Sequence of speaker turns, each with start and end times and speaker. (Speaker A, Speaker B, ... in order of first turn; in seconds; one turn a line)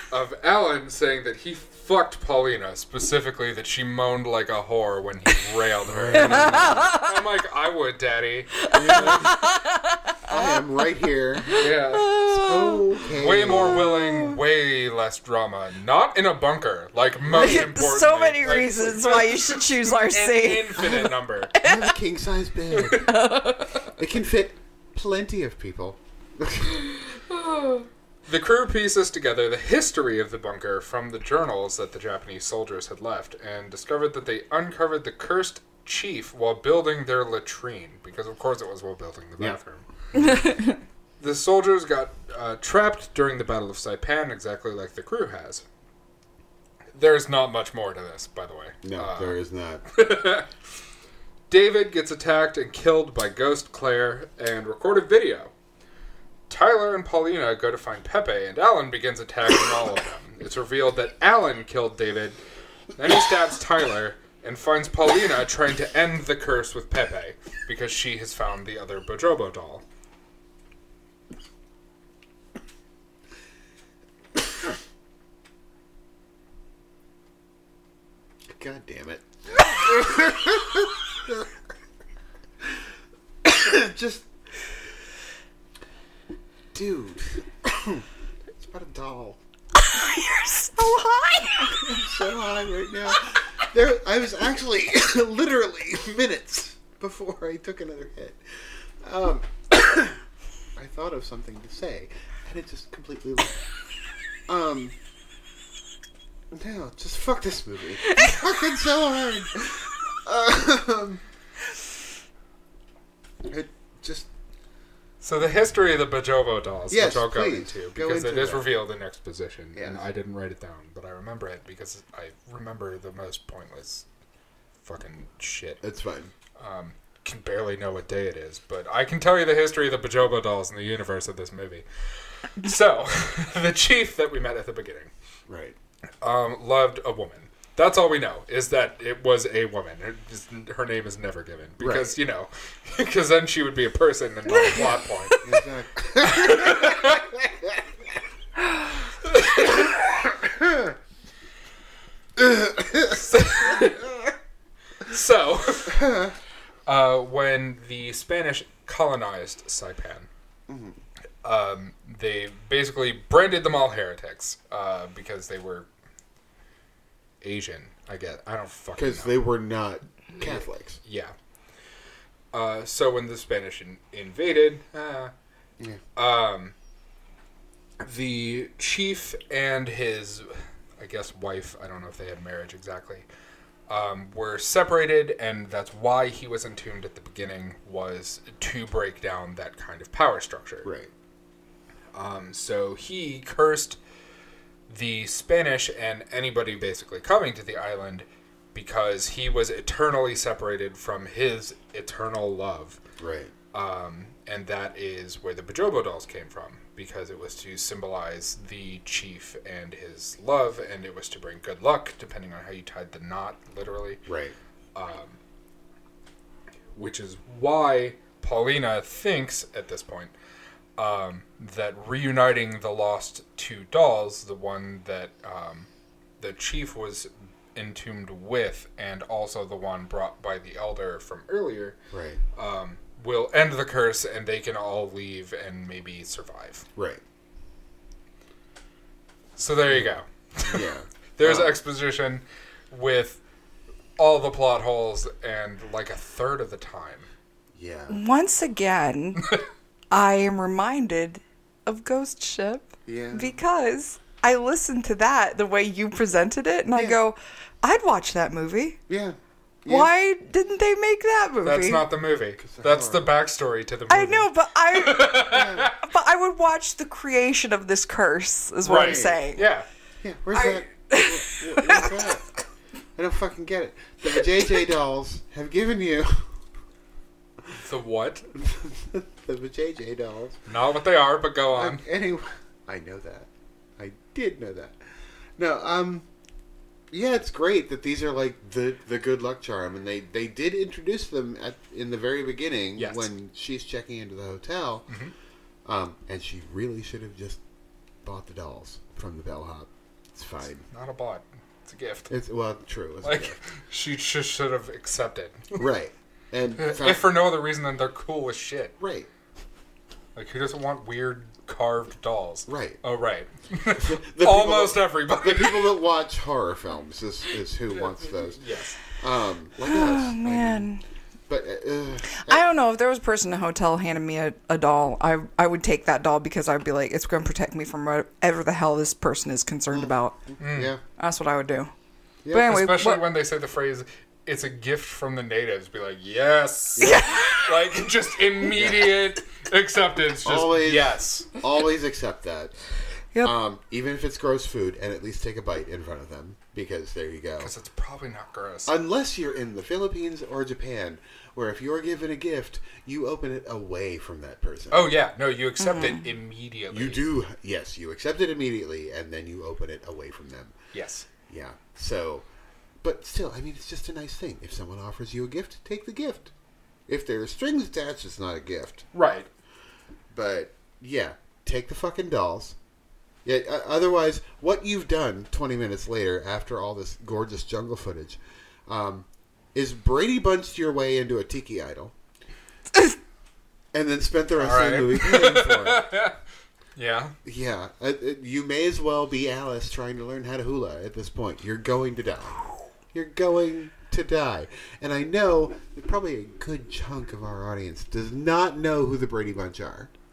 Speaker A: 0.1-9.4
Speaker B: 5.8-7.0
Speaker C: 6.2-7.1
Speaker C: 8.7-10.6
Speaker B: 8.7-9.4
Speaker B: 10.3-11.7
Speaker C: 11.5-13.0
Speaker A: 11.6-12.2
Speaker B: 12.3-14.0
Speaker A: 13.2-21.5
Speaker B: 17.3-17.8
Speaker C: 17.3-22.0
Speaker B: 20.8-23.3
Speaker C: 22.8-23.9
Speaker B: 24.0-27.0
Speaker A: 28.3-40.6
Speaker C: 40.3-40.8
Speaker A: 41.2-45.6
Speaker A: 46.9-49.4
Speaker B: 48.8-49.9
Speaker A: 49.9-50.5
Speaker A: 51.5-55.5
Speaker A: 56.5-62.4
Speaker A: 63.0-69.8
Speaker B: 78.5-81.5
Speaker B: 83.4-84.3
Speaker B: 86.7-88.1
Speaker B: 88.6-89.4
Speaker C: 89.8-91.9
Speaker B: 91.6-100.2
Speaker B: 100.8-103.6
Speaker B: 104.5-105.0
Speaker B: 106.5-111.2
Speaker C: 108.0-108.4
Speaker B: 113.5-114.3
Speaker A: 115.2-124.1
Speaker B: 116.9-118.7
Speaker B: 119.8-120.1
Speaker A: 124.8-125.8
Speaker B: 125.8-126.3
Speaker A: 126.6-131.8
Speaker A: 132.4-135.1
Speaker B: 135.5-135.8
Speaker A: 136.2-145.4
Speaker B: 141.8-142.1
Speaker B: 144.6-147.8
Speaker A: 146.2-147.3
Speaker A: 149.3-149.8
Speaker B: 150.3-150.9
Speaker B: 152.4-153.3
Speaker A: 153.1-154.1
Speaker A: 155.1-156.2
Speaker B: 155.9-156.3
Speaker A: 156.9-160.3
Speaker B: 160.7-161.0
Speaker A: 161.4-165.9
Speaker A: 167.4-169.4
Speaker B: 169.0-171.0
Speaker A: 170.4-171.3
Speaker A: 172.5-175.3
Speaker A: 176.2-176.8
Speaker A: 178.0-183.3
Speaker A: 183.9-190.9
Speaker B: 190.8-191.1
Speaker A: 192.1-194.0
Speaker A: 194.9-203.0
Speaker B: 203.2-203.5
Speaker A: 203.7-214.2
Speaker B: 214.3-214.6
Speaker A: 214.9-215.4
Speaker A: 216.9-220.3
Speaker A: 221.0-225.9
Speaker A: 226.4-232.0
Speaker B: 232.1-232.4
Speaker A: 232.6-236.9
Speaker B: 237.0-237.2
Speaker A: 239.6-243.4
Speaker B: 239.9-241.8
Speaker A: 244.2-247.3
Speaker B: 247.8-248.2
Speaker C: 248.1-249.5
Speaker C: 250.1-259.0
Speaker B: 253.1-253.6
Speaker B: 259.1-260.1
Speaker C: 259.9-262.1
Speaker A: 261.6-266.0
Speaker B: 262.6-263.3
Speaker C: 264.1-269.7
Speaker B: 265.5-265.9
Speaker A: 268.8-269.9
Speaker B: 268.9-269.4
Speaker B: 270.2-272.4
Speaker C: 270.5-272.4
Speaker B: 273.2-276.5
Speaker A: 277.8-278.5
Speaker B: 278.6-280.6
Speaker A: 280.7-282.0
Speaker B: 281.7-286.3
Speaker B: 287.1-295.1
Speaker A: 293.0-293.3
Speaker B: 295.9-297.6
Speaker B: 298.2-300.9
Speaker A: 300.9-302.3
Speaker B: 302.3-303.6
Speaker A: 303.2-305.9
Speaker B: 305.8-307.3
Speaker A: 306.8-309.0
Speaker B: 309.0-309.3
Speaker A: 310.4-316.0
Speaker B: 312.7-313.0
Speaker B: 313.9-318.6
Speaker A: 317.9-319.0
Speaker B: 319.1-320.9
Speaker C: 319.9-321.0
Speaker B: 321.5-322.7
Speaker C: 322.3-330.4
Speaker B: 329.9-331.0
Speaker A: 330.6-330.9
Speaker C: 331.2-331.9
Speaker B: 332.4-332.8
Speaker C: 332.5-333.2
Speaker A: 332.5-341.5
Speaker B: 337.0-337.3
Speaker C: 337.0-337.8
Speaker B: 338.8-339.2
Speaker B: 340.4-342.8
Speaker B: 343.4-347.7
Speaker A: 347.6-349.0
Speaker B: 348.9-355.2
Speaker A: 354.9-357.3
Speaker C: 355.8-356.2
Speaker B: 356.9-360.8
Speaker A: 360.9-361.3
Speaker B: 361.5-362.5
Speaker B: 363.0-366.5
Speaker B: 367.1-369.1
Speaker A: 369.1-369.5
Speaker B: 370.3-372.8
Speaker B: 373.4-382.1
Speaker B: 383.9-386.1
Speaker A: 384.6-386.4
Speaker A: 387.0-387.4
Speaker B: 387.4-400.1